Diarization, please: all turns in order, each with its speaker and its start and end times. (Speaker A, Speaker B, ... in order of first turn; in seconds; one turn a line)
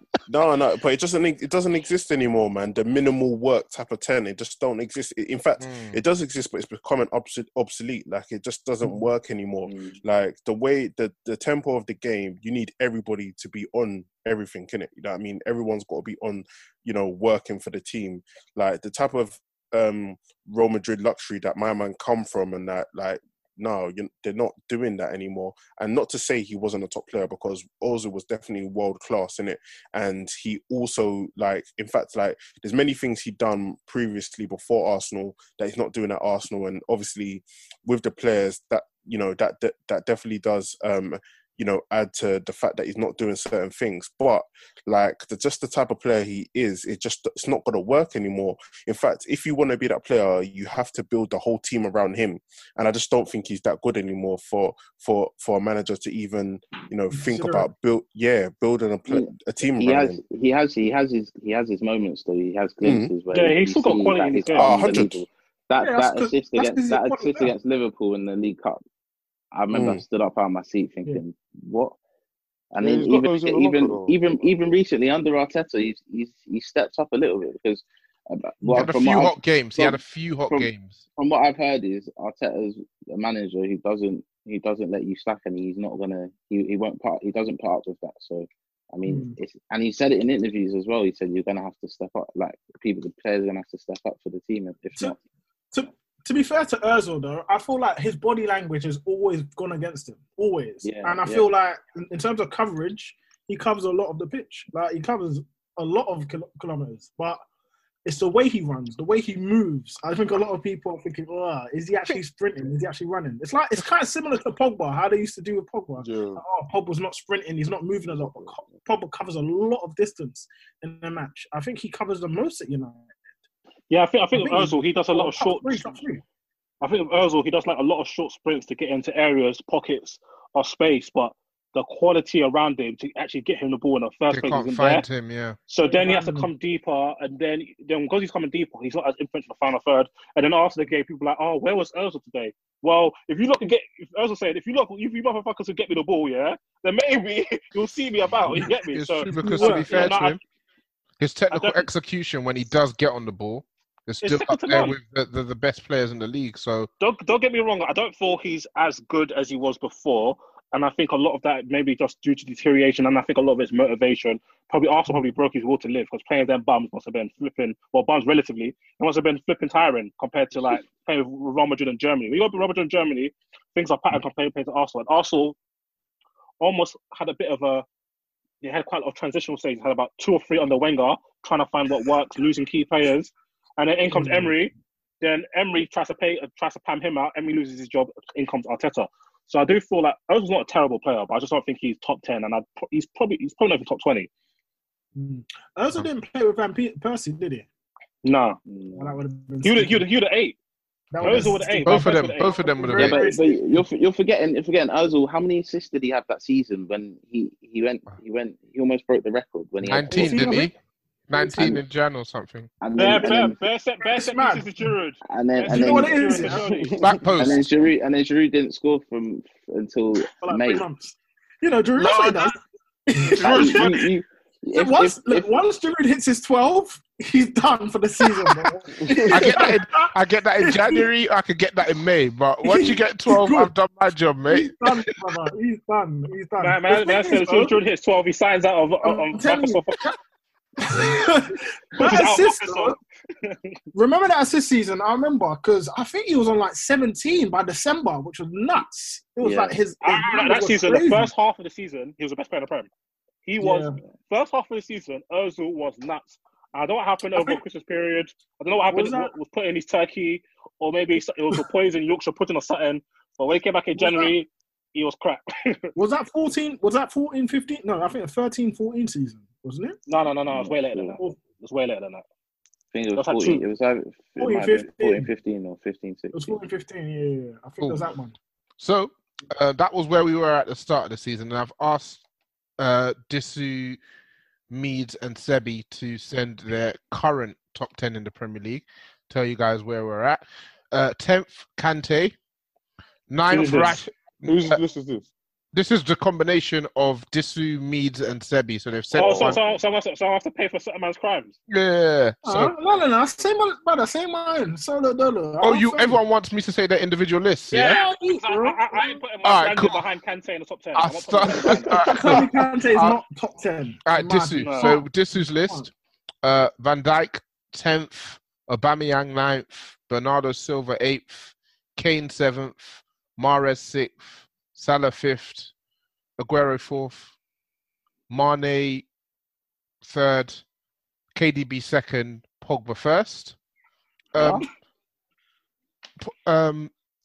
Speaker A: 0.3-60.2
Speaker B: 5.6-6.0
Speaker C: 9.7-10.0
Speaker D: 57.1-57.7
Speaker C: 59.1-68.8
Speaker A: 62.8-63.1
Speaker E: 63.3-64.8
Speaker A: 64.5-65.2
Speaker D: 65.8-67.5
Speaker C: 69.5-71.9
Speaker A: 69.7-70.0
Speaker C: 72.7-95.2
Speaker F: 72.8-74.2
Speaker B: 78.7-81.0
Speaker D: 89.0-89.3
Speaker D: 95.7-107.4
Speaker C: 100.8-101.5
Speaker D: 108.0-123.1
Speaker F: 116.0-116.4
Speaker E: 123.9-126.0
Speaker D: 124.3-126.2
Speaker E: 126.8-135.0
Speaker B: 134.3-135.6
Speaker E: 135.7-150.4
Speaker D: 135.8-136.5
Speaker B: 148.6-150.4
Speaker D: 149.3-150.2
Speaker B: 151.2-156.9
Speaker E: 151.5-151.9
Speaker E: 154.2-155.0
Speaker E: 157.0-175.6
Speaker E: 176.6-177.8
Speaker E: 178.6-194.3
Speaker D: 184.1-184.5
Speaker D: 195.2-197.7
Speaker E: 198.2-198.6
Speaker C: 198.7-199.2
Speaker D: 198.9-200.1
Speaker E: 199.6-200.6
Speaker D: 201.1-203.8
Speaker E: 201.2-202.7
Speaker B: 201.8-203.3
Speaker C: 202.9-210.6
Speaker B: 209.8-210.7
Speaker D: 209.9-210.7
Speaker B: 211.3-212.7
Speaker D: 211.3-211.8
Speaker C: 212.8-213.6
Speaker E: 212.9-217.0
Speaker D: 214.0-214.9
Speaker C: 215.2-216.6
Speaker D: 215.7-216.9
Speaker B: 217.0-217.6
Speaker C: 217.3-220.9
Speaker D: 220.4-224.1
Speaker E: 222.0-222.4
Speaker C: 223.4-225.5
Speaker B: 223.4-223.9
Speaker D: 224.7-231.1
Speaker B: 229.3-235.1
Speaker D: 232.6-233.7
Speaker D: 234.5-237.8
Speaker E: 236.6-240.0
Speaker D: 239.0-240.2
Speaker D: 240.8-243.0
Speaker E: 242.0-243.6
Speaker D: 243.9-251.3
Speaker C: 249.4-249.8
Speaker E: 250.0-252.9
Speaker E: 253.4-265.8
Speaker D: 253.6-254.0
Speaker D: 257.3-257.6
Speaker D: 258.9-259.3
Speaker D: 263.9-264.3
Speaker D: 265.9-270.0
Speaker E: 270.1-272.2
Speaker C: 270.5-271.2
Speaker C: 272.9-276.5
Speaker E: 273.2-273.6
Speaker D: 274.4-275.3
Speaker D: 276.3-278.4
Speaker B: 277.8-278.1
Speaker B: 278.8-282.2
Speaker B: 282.8-284.0
Speaker B: 284.7-292.3
Speaker B: 293.3-294.8
Speaker F: 294.4-295.3
Speaker B: 295.7-299.6
Speaker E: 299.1-301.6
Speaker B: 301.7-302.7
Speaker D: 302.4-306.2
Speaker B: 305.6-308.0
Speaker E: 307.7-312.4
Speaker D: 307.7-309.2
Speaker B: 309.4-310.0
Speaker B: 310.9-313.2
Speaker D: 311.7-315.9
Speaker B: 314.0-315.9
Speaker E: 314.6-315.0
Speaker B: 316.4-325.7
Speaker B: 326.4-327.3
Speaker B: 328.3-329.1
Speaker B: 330.0-330.6
Speaker B: 331.3-333.6
Speaker B: 334.3-334.6
Speaker C: 334.3-334.6
Speaker B: 336.2-336.9